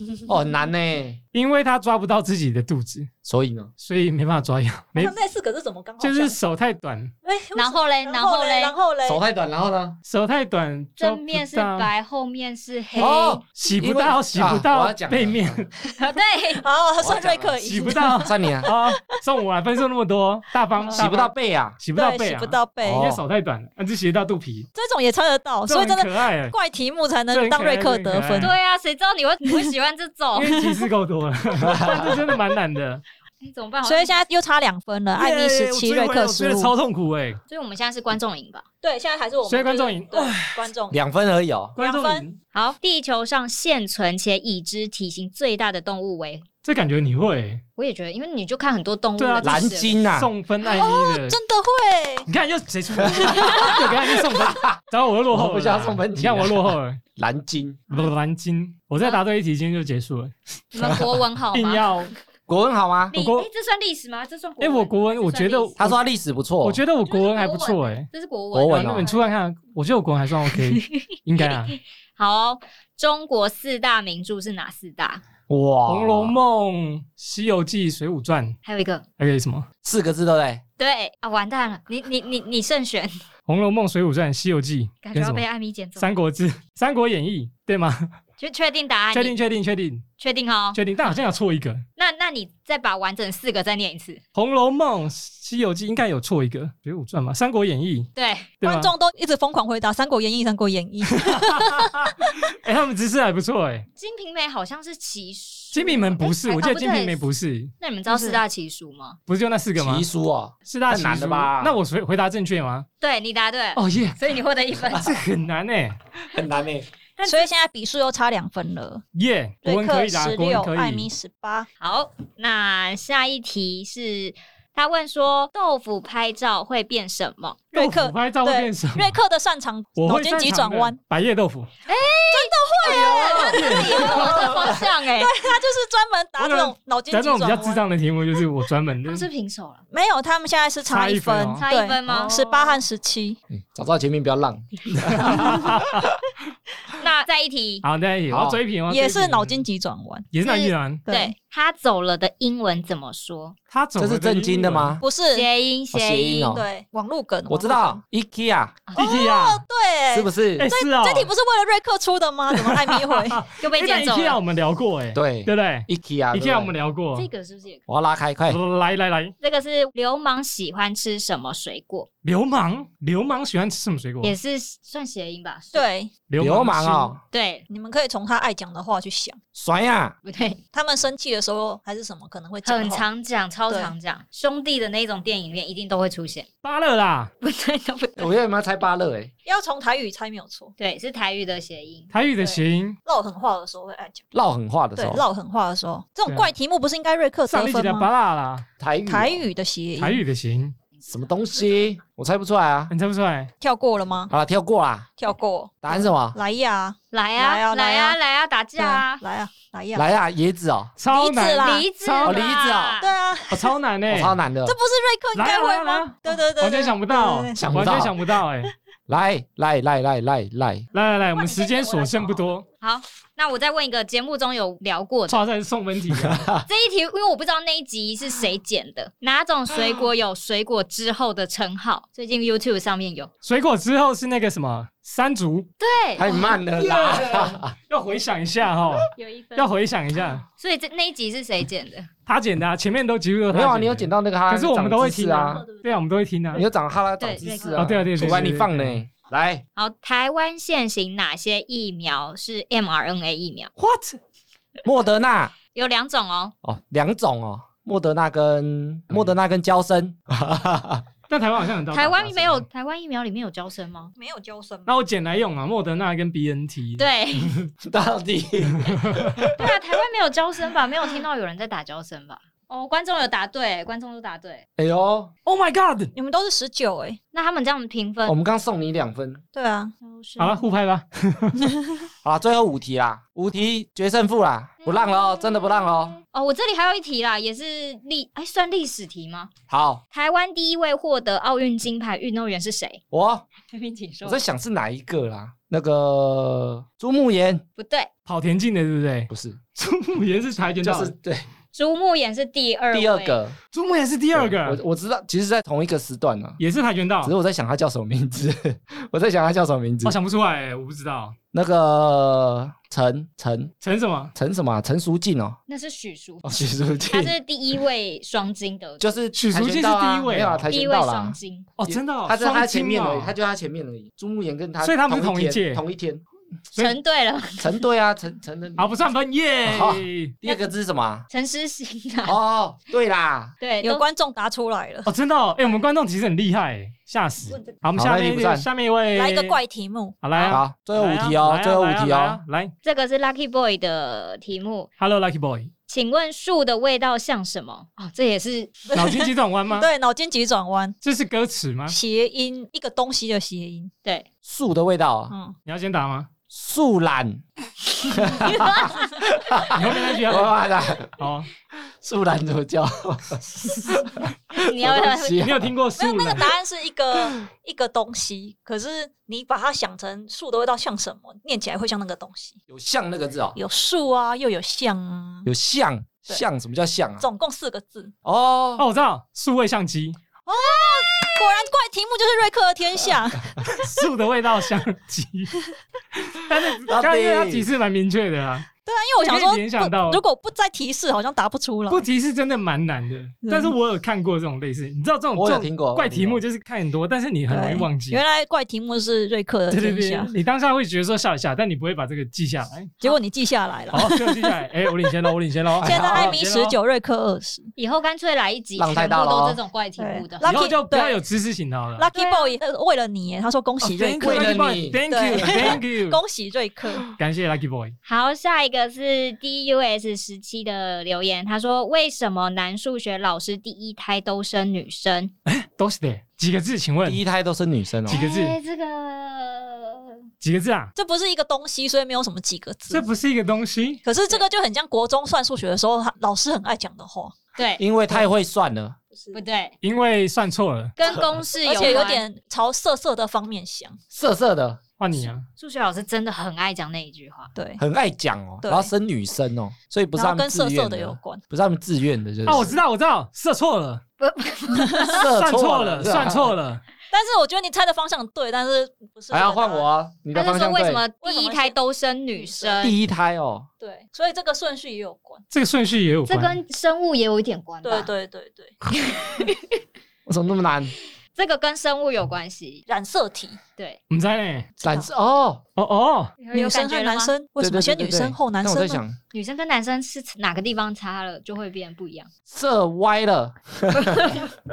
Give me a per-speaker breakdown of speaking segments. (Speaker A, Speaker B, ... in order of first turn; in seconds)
Speaker A: 0.3-1.2, 3.2-3.7, 9.1-10.0, 13.0-15.6, 17.0-17.6, 18.1-18.7, 20.9-21.8, 22.8-23.2, 31.6-32.1, 40.9-41.8, 49.4-50.3, 53.2-54.8, 55.3-57.8, 62.5-63.1, 65.8-66.8, 68.5-69.1, 75.5-76.4, 79.8-80.6, 109.8-111.8, 116.3-116.9, 143.5-146.1, 148.3-148.6, 154.0-155.0, 155.9-156.7, 157.5-158.8, 160.1-160.7, 165.1-166.7, 167.9-168.6, 176.4-177.2, 179.6-180.2, 188.2-189.3, 194.3-195.2, 198.8-199.4, 201.1-202.9, 204.3-205.1, 205.8-206.4, 209.9-210.9, 212.2-213.0, 214.1-214.8, 217.6-218.1, 219.1-220.9, 226.1-226.7, 236.2-237.7, 243.5-245.7, 246.5-249.6, 254.8-255.5, 256.6-261.1, 267.8-269.7, 274.8-275.3, 278.2-279.4, 282.2-286.2, 289.7-290.0, 293.1-293.4, 294.2-297.6, 299.3-299.6, 300.8-301.4, 302.9-303.6, 304.4-306.6, 307.2-310.2, 311.5-313.7, 314.4-315.6, 316.4-317.4, 319.0-326.2, 327.6-328.9, 329.6-331.3, 332.2-333.5, 338.0-338.7, 340.5-342.4, 354.4-355.3, 356.5-357.4, 358.1-361.2, 362.0-364.1, 364.7-365.7, 372.7-373.6, 375.5-377.3, 378.2-378.9, 386.9-387.7, 395.4-396.4, 405.7-406.4, 408.8-409.6, 414.2-415.7, 427.1-428.2, 437.8-439.0, 444.1-444.8, 447.8-452.7, 455.1-456.5, 459.3-461.0, 462.8-463.7, 470.3-470.9, 474.8-475.6, 477.6-479.2, 482.5-484.4
Speaker B: 1.3-3.1, 3.8-5.2, 6.0-7.1, 10.1-11.9, 13.5-15.7, 17.6-24.7, 25.7-26.6, 27.3-28.5, 30.3-33.0, 35.2-37.4, 39.5-40.6, 41.8-42.4, 46.6-47.6, 49.2-51.4, 52.3-57.0, 57.9-60.4, 61.5-62.1, 63.1-63.5, 64.6-66.0, 66.6-68.1, 68.7-71.8, 75.9-78.6, 79.2-79.7, 83.5-85.5, 86.0-88.1, 89.1-90.0, 90.7-91.8, 94.3-98.1, 98.6-98.9, 101.1-103.9, 105.7-107.7, 109.3-110.1, 110.7-112.9, 113.8-114.2, 114.9-116.0, 119.2-121.1, 127.7-129.2, 130.0-131.7, 133.3-134.5, 136.4-139.3, 140.8-142.3, 144.9-146.1, 147.8-149.7, 150.3-151.0, 153.7-155.0, 158.9-159.6, 160.6-161.3, 162.5-167.3, 168.5-169.3, 172.2-174.3, 176.3-177.2, 186.6-187.3, 192.1-193.0, 196.3-196.5, 197.5-198.7, 200.0-200.8, 202.9-203.5, 211.0-212.5, 213.5-214.4, 215.3-218.7, 220.9-222.7, 225.3-226.5, 233.4-235.7, 236.4-240.4, 242.3-246.7, 247.8-249.0, 253.8-254.2, 261.3-262.6, 264.9-267.1, 268.8-269.5, 275.4-276.1, 280.4-281.7, 298.3-301.1, 303.7-304.8, 306.6-307.3, 310.0-311.4, 313.8-314.3, 319.3-320.7, 321.8-323.3, 324.8-325.8, 328.8-330.4, 335.1-339.6, 340.2-342.7, 345.0-345.7, 348.9-349.9, 351.0-352.0, 355.6-356.3, 359.7-360.6, 361.2-361.5, 365.4-366.5, 378.8-380.2, 383.6-385.5, 386.1-390.2, 391.9-398.2, 399.7-403.1, 403.9-406.8, 410.4-412.1, 413.8-416.2, 417.2-417.9, 425.5-427.2, 428.1-428.6, 430.4-430.9, 432.9-434.0, 439.8-441.0, 445.0-445.5, 452.4-454.0, 455.2-456.8, 465.5-466.6, 474.1-474.7, 475.8-476.3
Speaker C: 5.0-6.4, 7.2-9.2, 16.6-18.8, 21.9-23.1, 24.8-28.6, 29.4-29.7, 33.8-36.7, 38.8-41.0, 41.8-42.2, 50.6-52.3, 53.4-53.7, 98.6-102.1, 108.1-108.4, 117.2-119.0, 119.7-121.7, 127.7-131.0, 132.3-137.8, 139.9-143.4, 148.9-150.3, 151.1-151.3, 155.0-155.5, 156.5-158.0, 159.0-163.4, 175.7-176.1, 177.7-179.4, 180.7-183.1, 189.5-190.7, 192.4-194.2, 195.0-198.1, 199.1-200.2, 203.6-204.3, 205.2-208.2, 208.8-210.1, 211.1-211.9, 213.0-213.7, 214.7-218.1, 264.2-264.9, 276.1-277.2, 279.6-279.9, 281.6-282.0, 333.8-335.1, 339.1-340.6, 349.8-351.0, 351.9-353.9, 355.3-355.6, 366.0-372.6, 373.6-375.5, 377.2-378.1, 380.5-383.7, 388.9-392.1, 393.4-393.7, 397.5-400.3, 403.0-404.6, 405.8-407.7, 410.0-411.2, 412.0-417.1, 431.0-433.1, 434.1-437.4, 441.6-444.0, 447.6-447.8, 448.6-448.9, 450.2-451.4, 454.7-455.2, 457.1-459.9, 461.2-461.8, 462.3-462.9, 463.8-465.4, 467.8-468.8, 472.9-473.6, 474.8-475.1, 476.5-479.0
Speaker D: 7.5-8.8, 11.0-13.4, 16.0-17.1, 28.4-30.6, 33.4-34.2, 37.5-38.6, 42.5-46.5, 47.8-50.0, 53.5-53.8, 60.7-61.9, 63.1-65.8, 67.1-69.3, 70.7-75.2, 78.7-79.0, 80.8-83.1, 85.0-86.1, 88.4-89.4, 90.2-90.8, 92.0-94.2, 98.2-98.5, 104.0-107.2, 107.8-109.2, 113.0-115.2, 117.2-117.5, 121.8-127.6, 131.9-135.3, 139.1-139.8, 141.6-142.8, 147.0-147.8, 150.4-153.6, 155.3-156.5, 158.9-159.3, 163.6-164.4, 167.2-167.8, 169.4-172.1, 174.2-175.9, 177.3-177.7, 180.2-180.6, 182.6-186.5, 187.4-188.3, 190.8-192.1, 207.1-209.2, 211.5-213.1, 221.3-225.4, 226.7-233.3, 235.8-236.4, 239.2-239.7, 240.6-242.1, 247.2-247.9, 249.8-253.7, 255.7-256.6, 261.9-264.1, 267.0-267.7, 269.5-274.6, 277.3-278.4, 280.0-280.7, 284.8-289.5, 290.1-293.0, 293.7-294.4, 297.8-298.1, 301.7-303.4, 315.7-316.5, 317.1-319.2, 320.7-321.7, 326.7-327.8, 331.3-332.4, 333.6-334.0, 342.8-344.9, 345.9-348.9, 358.0-359.0, 364.5-365.4, 380.7-381.6, 407.8-410.6, 412.1-412.6, 418.1-425.3, 428.1-430.1, 437.6-437.8, 439.3-439.8, 441.0-442.2, 445.6-447.5, 454.2-455.3, 460.3-463.0, 466.3-468.1, 469.0-469.7, 471.4-472.8, 476.4-477.3, 479.3-482.3, 483.9-484.5